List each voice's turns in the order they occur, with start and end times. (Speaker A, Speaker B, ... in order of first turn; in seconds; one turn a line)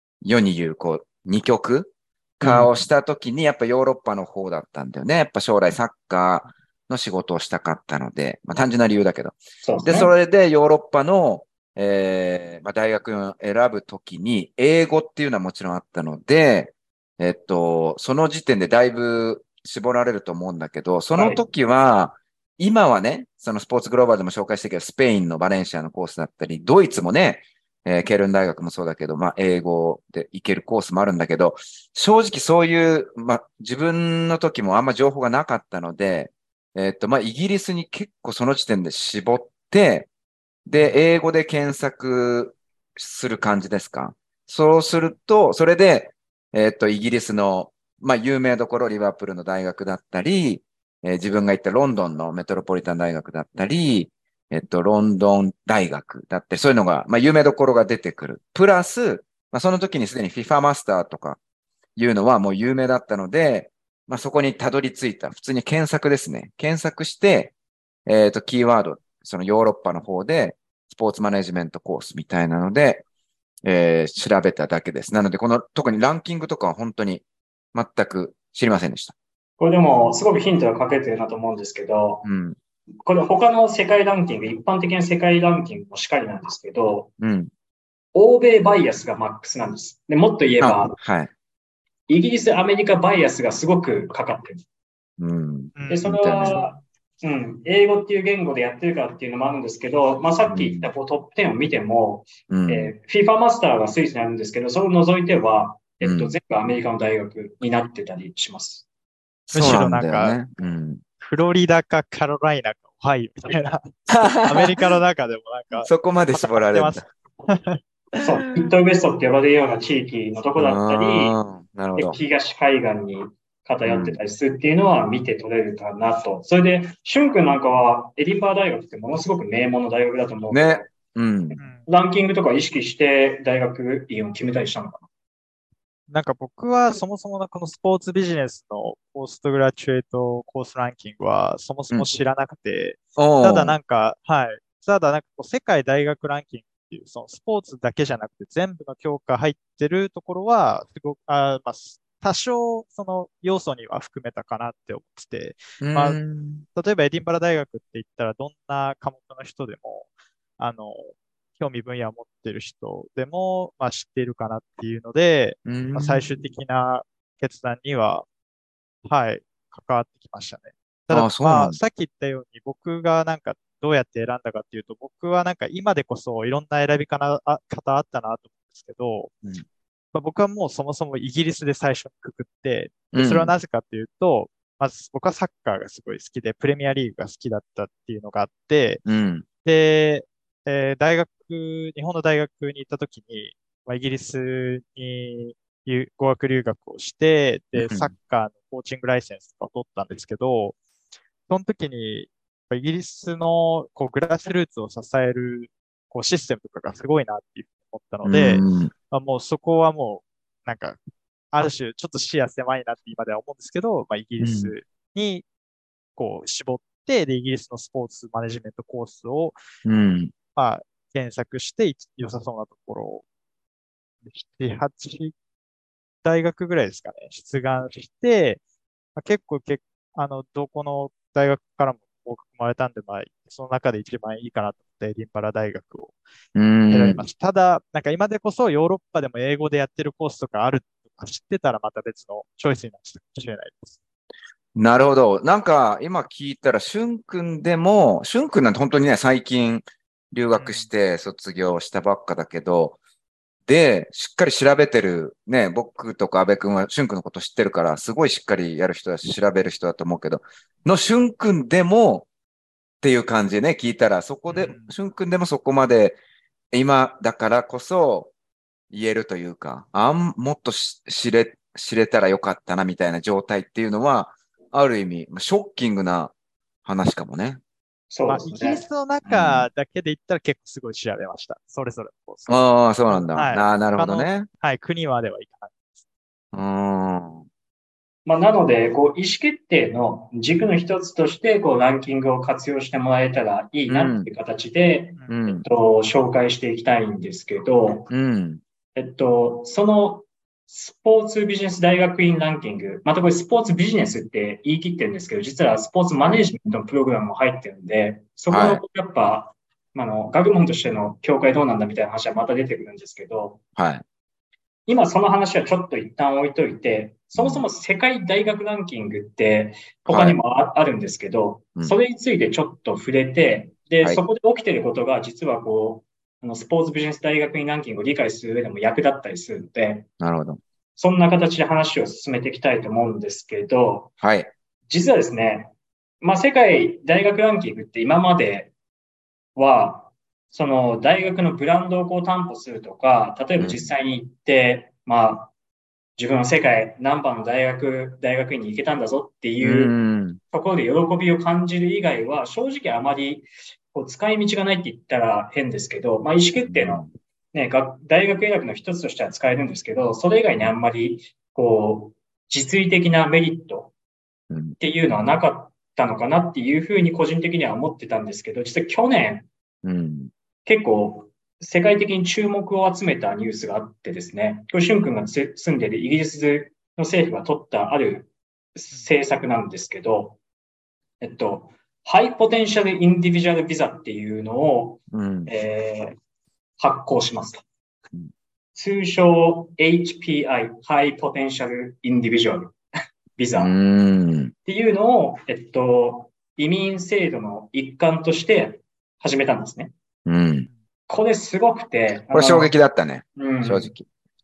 Speaker A: 0.2-40.1
Speaker B: 2.4-2.7
Speaker B: 9.6-10.1
Speaker B: 21.2-21.4
Speaker A: 40.7-61.4
Speaker A: 62.0-67.5
Speaker A: 68.1-73.0
Speaker A: 73.6-79.2
Speaker B: 79.6-82.3
Speaker A: 82.2-82.6
Speaker B: 83.0-87.1
Speaker A: 87.2-87.5
Speaker B: 88.1-90.9
Speaker A: 90.6-91.3
Speaker B: 92.1-94.6
Speaker A: 95.2-96.6
Speaker C: 95.8-96.7
Speaker B: 95.9-108.9
Speaker A: 100.5-100.9
Speaker A: 102.5-102.9
Speaker A: 106.0-106.4
Speaker A: 109.5-111.0
Speaker C: 109.5-110.4
Speaker C: 111.2-117.8
Speaker A: 114.1-114.8
Speaker A: 115.8-117.0
Speaker B: 118.2-121.4
Speaker A: 120.6-122.2
Speaker B: 122.0-130.9
Speaker A: 123.8-124.2
Speaker A: 130.5-131.6
Speaker B: 131.5-135.1
Speaker C: 136.1-156.2
Speaker A: 143.2-143.8
Speaker A: 155.8-156.7
Speaker C: 156.7-160.1
Speaker C: 160.6-168.3
Speaker A: 165.7-166.3
Speaker C: 169.1-179.3
Speaker A: 171.1-171.8
Speaker C: 180.1-189.1
Speaker A: 183.1-183.5
Speaker A: 189.1-189.4
Speaker C: 189.6-200.8
Speaker A: 197.8-198.1
Speaker C: 201.5-211.0
Speaker A: 208.2-208.9
Speaker C: 211.5-215.5
Speaker A: 214.4-214.7
Speaker C: 216.2-219.6
Speaker A: 219.8-220.3
Speaker C: 220.6-223.2
Speaker C: 224.3-225.3
Speaker C: 226.2-228.6
Speaker C: 229.2-236.2
Speaker A: 236.6-237.2
Speaker C: 236.9-244.0
Speaker A: 244.8-253.0
Speaker C: 250.6-250.9
Speaker A: 253.7-262.3
Speaker A: 263.0-266.2
Speaker C: 264.5-264.9
Speaker A: 266.7-268.3
Speaker A: 268.9-276.3
Speaker A: 276.9-277.6
Speaker B: 278.1-278.8
Speaker C: 278.3-285.9
Speaker A: 279.2-279.7
Speaker A: 282.5-284.5
Speaker A: 286.5-287.5
Speaker B: 288.2-298.1
Speaker A: 293.9-294.3
Speaker A: 295.3-295.6
Speaker A: 298.1-298.6
Speaker B: 299.0-313.6
Speaker A: 308.5-308.8
Speaker A: 313.8-314.0
Speaker B: 314.9-330.1
Speaker A: 317.4-317.7
Speaker A: 320.1-320.4
Speaker A: 330.2-330.6
Speaker B: 331.0-334.1
Speaker A: 334.2-334.5
Speaker B: 334.9-338.7
Speaker B: 339.6-345.5
Speaker A: 343.6-343.9
Speaker B: 346.2-349.9
Speaker A: 349.6-350.4
Speaker B: 350.5-363.9
Speaker A: 356.6-357.1
Speaker A: 364.5-364.8
Speaker B: 364.8-369.5
Speaker A: 369.8-370.3
Speaker B: 370.6-380.4
Speaker B: 381.2-386.1
Speaker A: 385.1-385.5
Speaker B: 386.8-387.6
Speaker B: 388.8-392.8
Speaker B: 393.4-393.8
Speaker A: 393.6-394.5
Speaker B: 394.7-399.9
Speaker A: 400.3-400.7
Speaker B: 401.1-402.7
Speaker A: 402.3-404.1
Speaker B: 403.4-403.9